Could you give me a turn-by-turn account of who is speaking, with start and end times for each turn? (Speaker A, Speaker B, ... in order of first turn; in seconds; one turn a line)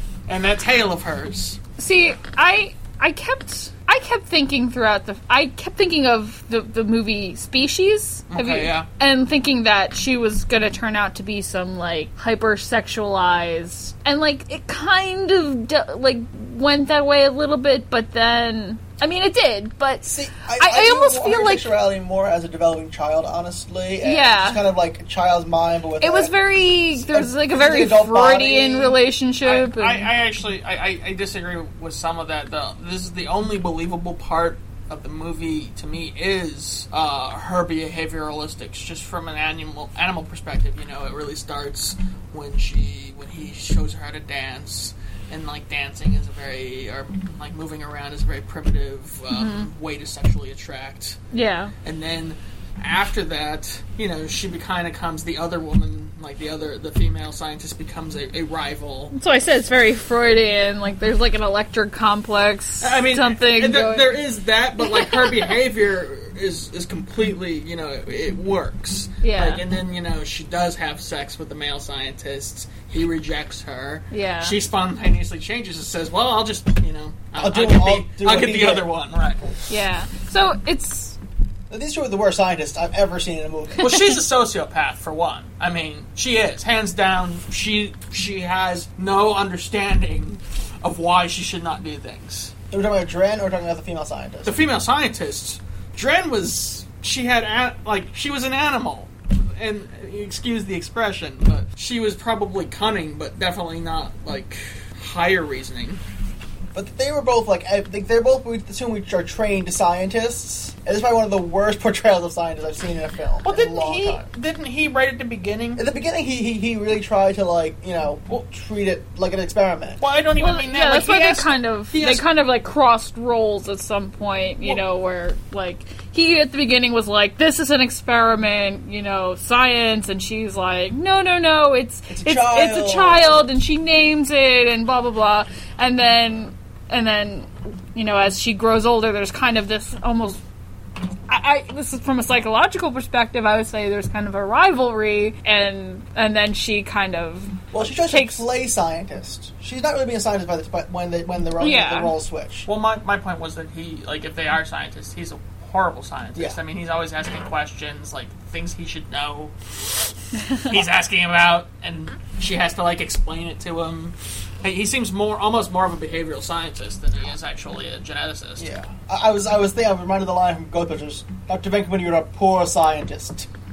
Speaker A: 0.3-1.6
Speaker B: 1.8-21.8
Speaker A: 8.3-8.9
Speaker C: 20.0-29.0
Speaker B: 24.0-24.7
Speaker B: 26.0-30.1
Speaker A: 29.4-51.2
Speaker B: 49.3-49.7
Speaker B: 51.3-51.7
Speaker A: 51.8-59.1
Speaker B: 59.1-65.6
Speaker A: 62.8-79.5
Speaker B: 69.2-69.6
Speaker B: 74.1-74.6
Speaker C: 77.3-78.9
Speaker B: 79.7-81.2
Speaker C: 81.7-84.0
Speaker A: 83.8-92.5
Speaker C: 92.7-94.7
Speaker A: 94.4-106.0
Speaker C: 106.7-114.3
Speaker A: 113.4-115.8
Speaker C: 115.8-120.0
Speaker A: 120.0-122.3
Speaker B: 120.4-140.4
Speaker C: 132.1-133.5
Speaker B: 141.3-148.5
Speaker C: 147.7-152.7
Speaker B: 151.6-152.2
Speaker A: 152.7-168.7
Speaker C: 168.6-173.5